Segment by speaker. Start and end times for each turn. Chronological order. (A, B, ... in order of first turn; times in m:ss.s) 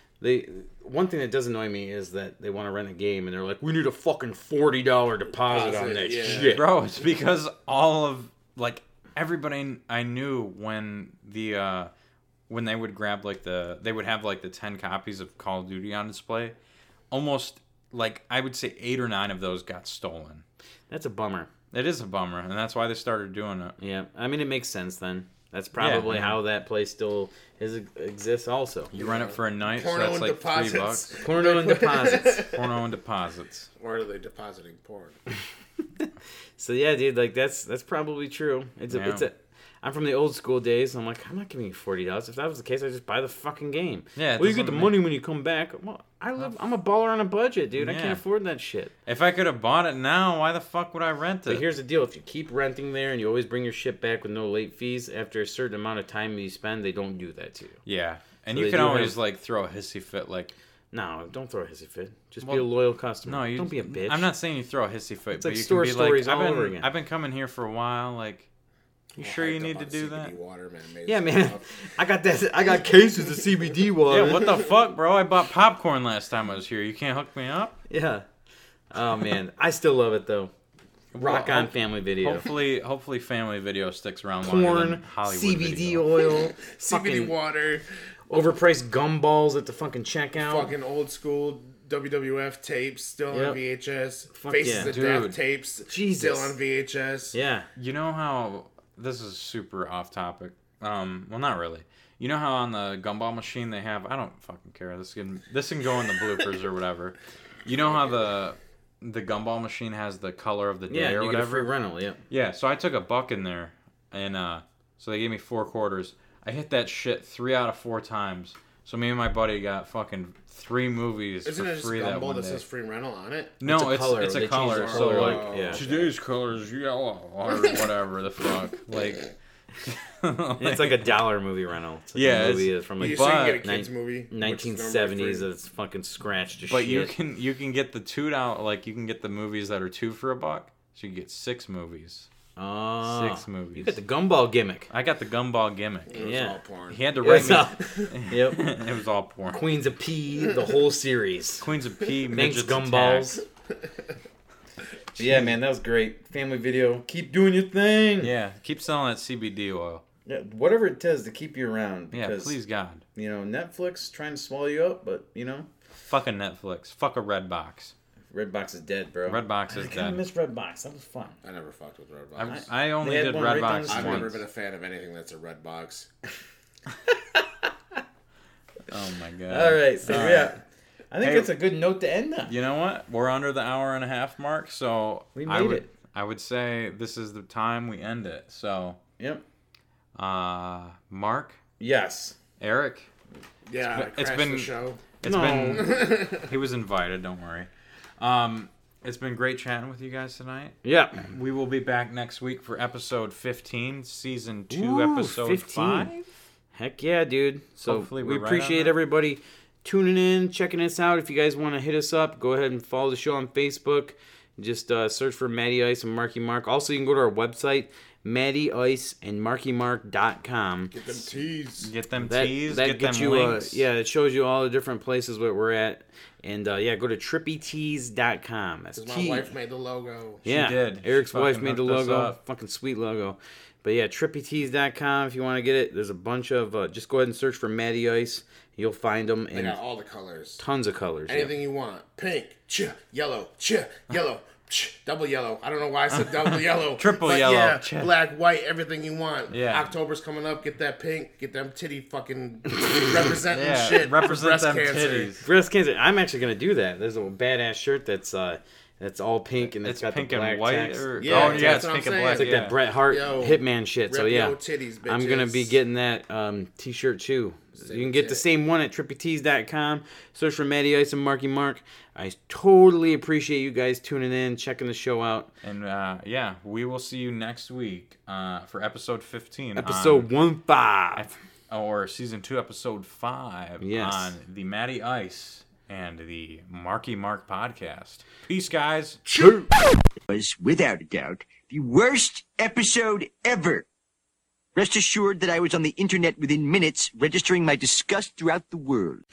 0:00.2-0:06.7 A
0:05.4-0:06.6 B
0:06.2-0:11.9 C
0:12.5-0:16.6 C
0:17.1-0:20.4 C
0:20.9-0:21.5 A
0:21.7-0:23.7 C
0:23.8-0:28.9 A
0:25.8-0:26.4 C
0:28.9-0:31.2 C
0:28.9-0:32.7 B
0:31.2-0:32.4 A
0:32.4-0:33.7 C
0:33.8-0:35.2 B
0:36.6-0:48.9 A
0:38.9-0:39.2 C
0:44.2-0:45.0 C
0:47.8-0:48.2 C
0:49.0-0:51.6 C
0:51.5-0:57.8 A
0:57.8-1:00.5 C
0:58.5-0:59.2 A
1:00.9-1:04.3 A
1:02.4-1:02.7 C
1:03.2-1:08.5 C
1:05.4-1:06.9 A
1:09.2-1:10.3 C
1:09.2-1:11.7 B
1:11.0-1:14.6 A
1:14.1-1:17.8 C
1:17.9-1:18.2 A
1:18.9-1:20.5 A
1:21.1-1:26.1 C
1:21.2-1:22.5 A
1:24.4-1:27.3 A
1:26.3-1:27.8 B
1:28.3-1:30.7 A
1:30.4-1:37.4 B
1:33.3-1:33.6 A
1:34.3-1:35.0 A
1:34.8-1:35.4 C
1:35.9-1:36.5 A
1:37.3-1:37.7 A
1:37.8-1:51.7 C
1:50.9-1:52.2 A
1:52.3-2:02.6 C
2:01.4-2:03.6 B
2:03.6-2:09.3 C
2:03.6-2:05.8 A
2:04.5-2:06.1 B
2:09.8-2:11.2 C
2:10.6-2:17.1 A
2:12.1-2:13.6 C
2:13.0-2:15.5 B
2:16.7-2:22.3 C
2:22.6-2:24.9 A
2:23.0-2:24.0 C
2:24.9-2:26.1 C
2:26.1-2:28.0 B
2:26.2-2:26.6 A
2:26.9-2:29.6 C
2:27.2-2:28.7 A
2:29.5-2:31.7 A
2:31.6-2:33.4 C
2:32.3-2:33.4 A
2:35.2-2:38.3 A
2:35.2-2:35.5 C
2:38.2-2:40.0 C
2:40.2-2:42.6 A
2:42.1-2:43.0 C
2:43.1-2:45.7 A
2:46.1-2:47.9 C
2:48.3-2:51.4 A
2:49.2-2:50.2 C
2:51.4-2:52.7 B
2:52.4-2:54.4 C
2:52.4-2:54.4 A
2:53.9-2:56.1 B
2:57.1-2:58.0 A
2:58.9-3:00.5 C
2:59.5-3:02.5 A
3:01.2-3:01.5 C
3:02.5-3:09.0 C
3:05.3-3:05.9 A
3:10.1-3:11.6 C
3:11.8-3:12.4 A
3:12.6-3:13.1 C
3:13.7-3:15.2 B
3:13.9-3:26.2 C
3:15.2-3:15.9 A
3:15.7-3:16.5 B
3:20.8-3:21.3 A
3:24.7-3:26.1 A
3:26.7-3:40.9 A
3:27.8-3:28.9 C
3:40.9-3:41.9 B
3:41.8-3:43.8 C
3:42.2-3:49.5 A
3:49.0-3:50.4 B
3:50.4-3:59.8 A
3:50.4-3:52.4 C
3:59.5-4:00.6 B
4:00.6-4:01.5 A
4:01.3-4:15.3 B
4:07.0-4:08.1 C
4:09.5-4:09.9 C
4:13.4-4:15.4 C
4:15.4-4:35.5 A
4:19.6-4:22.8 C
4:21.2-4:25.7 B
4:27.8-4:28.4 B
4:35.6-4:40.3 C
4:39.8-4:41.2 A
4:41.1-4:49.2 C
4:43.8-4:44.4 A
4:49.3-4:49.7 B
4:49.4-4:49.6 A
4:50.3-4:53.8 D
4:54.7-4:59.2 D